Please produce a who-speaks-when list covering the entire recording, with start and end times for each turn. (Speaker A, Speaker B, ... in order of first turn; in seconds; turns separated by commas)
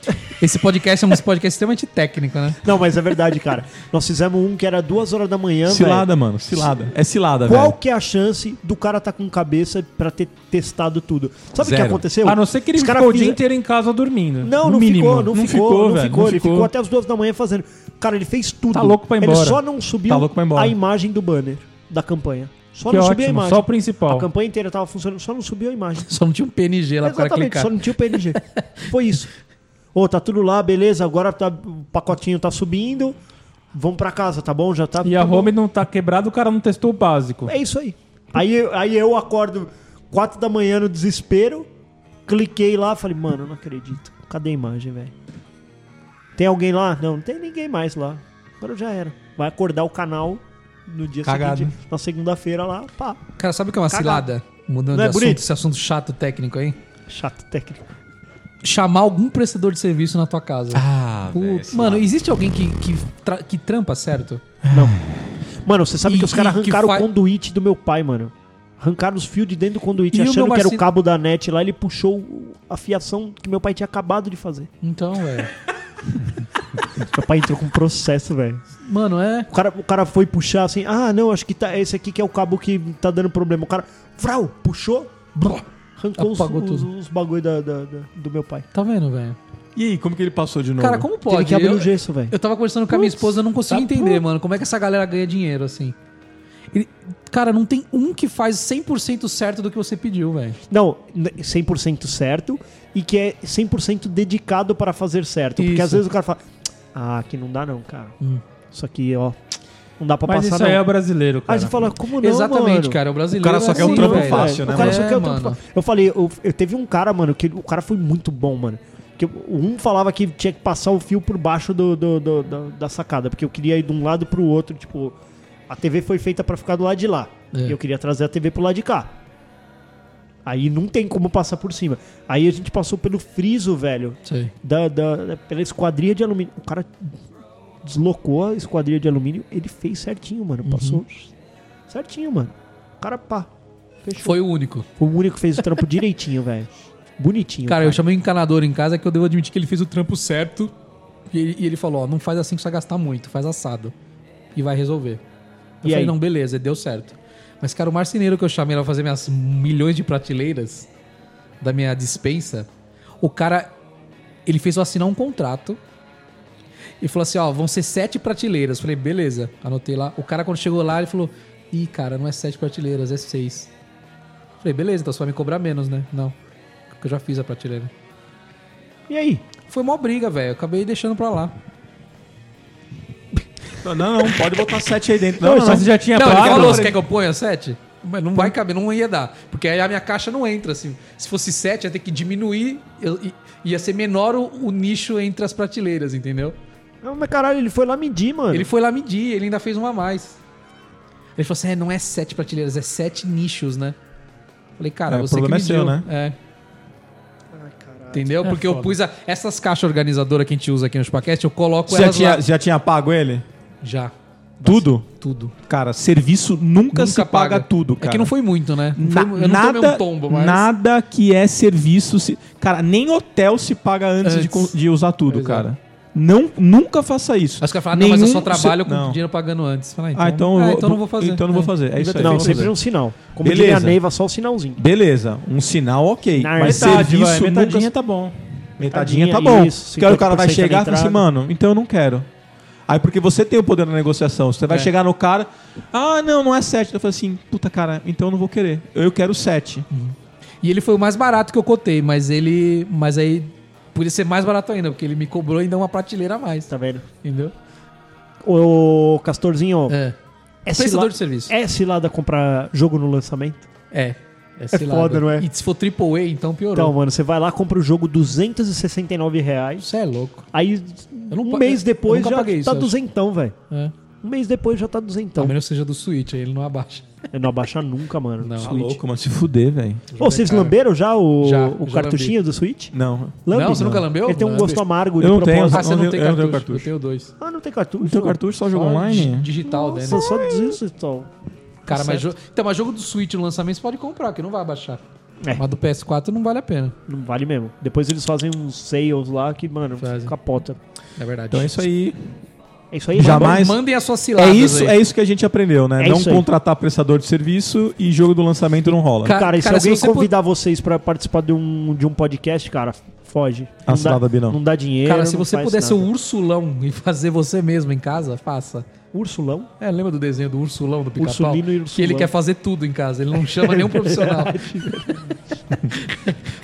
Speaker A: 0.4-2.6, Speaker B: 2.6-6.1, Speaker C: 5.7-7.8, Speaker B: 7.5-13.4, Speaker C: 11.6-12.0, Speaker D: 12.2-15.3, Speaker B: 14.4-26.1, Speaker C: 15.3-16.7, Speaker D: 18.7-19.6, Speaker C: 20.1-20.8, Speaker D: 22.9-24.3, Speaker A: 26.1-28.8, Speaker B: 27.0-29.3, Speaker B: 29.9-33.2, Speaker B: 33.7-35.5, Speaker D: 35.0-37.5, Speaker B: 37.5-41.7, Speaker B: 42.3-45.1, Speaker B: 46.4-53.2, Speaker C: 51.2-51.8, Speaker A: 53.4-56.8, Speaker B: 53.9-54.3, Speaker B: 54.9-55.4, Speaker B: 57.1-57.8, Speaker A: 58.6-64.4, Speaker C: 60.7-62.1, Speaker C: 64.6-65.3, Speaker B: 64.7-65.0, Speaker B: 65.6-74.7, Speaker A: 66.0-67.1, Speaker A: 70.1-70.8, Speaker A: 74.8-75.5, Speaker B: 77.0-78.7, Speaker A: 78.8-79.5, Speaker B: 79.5-88.7, Speaker A: 86.2-86.9, Speaker A: 88.7-89.4, Speaker C: 89.8-91.1, Speaker A: 90.8-96.0, Speaker B: 91.2-92.3, Speaker B: 92.9-94.2, Speaker A: 96.7-100.6, Speaker B: 100.7-108.1, Speaker A: 105.6-106.0, Speaker B: 108.7-109.4, Speaker B: 110.0-110.8, Speaker D: 110.3-111.8, Speaker B: 111.5-113.0, Speaker A: 112.2-115.6, Speaker C: 113.3-115.2, Speaker B: 113.6-125.2, Speaker B: 125.7-129.2, Speaker B: 130.4-137.2, Speaker A: 134.2-134.5, Speaker B: 137.8-141.3, Speaker A: 140.7-141.0, Speaker B: 141.9-143.5, Speaker B: 144.0-144.4, Speaker A: 144.2-144.9, Speaker B: 145.0-148.0, Speaker A: 147.7-150.7, Speaker A: 151.3-153.9, Speaker A: 154.6-155.2, Speaker A: 155.8-160.9, Speaker B: 155.8-156.2, Speaker A: 161.6-162.7, Speaker A: 163.2-163.7, Speaker A: 164.5-165.8, Speaker A: 167.0-173.7, Speaker A: 174.6-176.4, Speaker A: 176.9-177.9, Speaker B: 179.1-179.4, Speaker A: 179.7-181.6, Speaker C: 183.8-187.0, Speaker D: 185.4-186.9, Speaker B: 185.5-185.8, Speaker A: 186.1-196.6, Speaker B: 197.0-198.7, Speaker A: 198.5-200.4, Speaker A: 201.4-204.0, Speaker A: 204.8-206.4, Speaker C: 205.1-206.1, Speaker B: 207.5-208.9, Speaker A: 208.1-212.4, Speaker C: 211.9-213.4, Speaker A: 213.8-214.1, Speaker C: 214.6-215.1, Speaker A: 214.7-215.5, Speaker C: 215.6-218.3, Speaker A: 216.9-220.7, Speaker C: 219.0-229.2, Speaker A: 224.2-224.8, Speaker A: 225.3-225.7, Speaker A: 227.6-232.7, Speaker C: 230.2-232.8, Speaker B: 232.1-234.8, Speaker C: 233.4-234.0, Speaker C: 234.8-237.9, Speaker B: 236.4-237.1, Speaker D: 236.6-238.4, Speaker C: 238.8-242.3, Speaker B: 238.8-241.2, Speaker C: 242.9-249.9, Speaker A: 249.9-256.7, Speaker B: 256.7-257.1, Speaker A: 257.2-257.5, Speaker B: 258.4-260.0, Speaker A: 259.9-260.2, Speaker B: 260.7-263.7, Speaker A: 260.7-261.6, Speaker A: 263.9-266.9, Speaker B: 264.7-265.5, Speaker B: 266.7-269.9, Speaker A: 269.8-270.5, Speaker B: 270.5-273.6, Speaker A: 271.3-272.9, Speaker B: 274.2-275.6, Speaker A: 275.4-277.1, Speaker B: 277.3-279.0, Speaker A: 278.4-278.7, Speaker C: 278.6-280.1, Speaker A: 280.1-280.8, Speaker B: 280.2-282.9, Speaker A: 281.4-282.4, Speaker C: 282.9-284.1, Speaker B: 283.5-285.9, Speaker A: 283.5-284.8, Speaker C: 285.2-286.9, Speaker A: 285.7-287.3, Speaker B: 287.4-288.4, Speaker C: 288.0-289.5, Speaker A: 288.7-290.4, Speaker B: 289.6-291.3, Speaker C: 290.2-290.8, Speaker A: 291.9-295.0, Speaker B: 291.9-292.3, Speaker A: 295.5-296.9, Speaker B: 297.1-300.8, Speaker A: 300.0-300.3, Speaker A: 301.2-301.9, Speaker C: 301.5-302.4, Speaker B: 302.9-303.6, Speaker C: 303.1-303.8, Speaker A: 303.2-305.0, Speaker C: 304.4-309.4, Speaker B: 306.0-306.5, Speaker A: 309.2-310.3, Speaker B: 309.3-316.1, Speaker C: 313.9-314.6, Speaker A: 315.1-318.9, Speaker B: 319.1-319.7, Speaker A: 319.8-325.2, Speaker B: 321.2-322.3, Speaker B: 323.4-325.4, Speaker A: 325.9-326.4